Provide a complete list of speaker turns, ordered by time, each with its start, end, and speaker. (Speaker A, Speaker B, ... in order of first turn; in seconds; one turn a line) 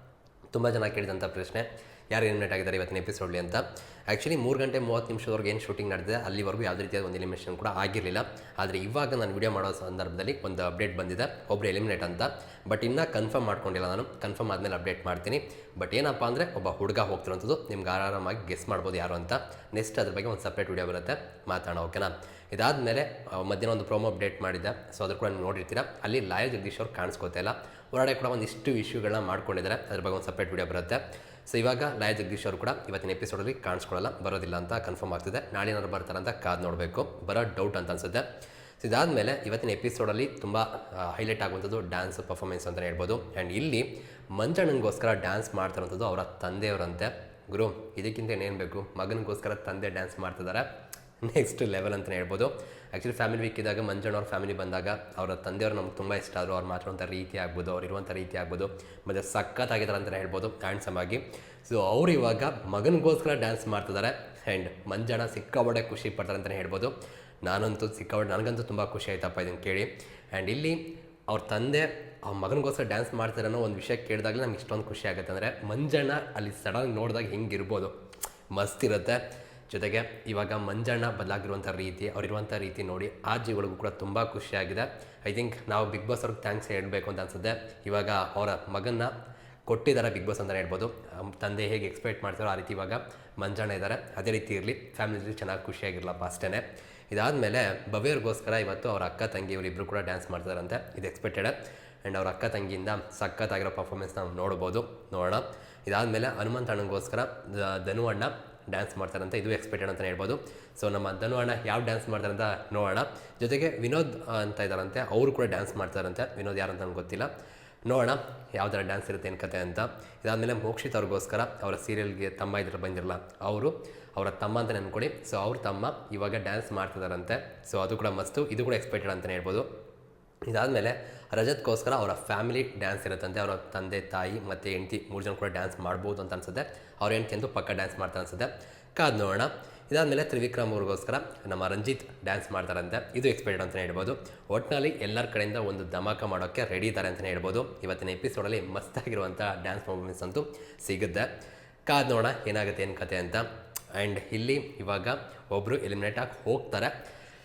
Speaker A: 0.5-38.2
Speaker A: 38.8-50.7
Speaker A: 51.2-77.9
Speaker A: 78.5-89.1
Speaker A: 89.7-117.3
Speaker A: 117.9-129.7
Speaker A: 130.5-151.3
Speaker A: 151.9-156.9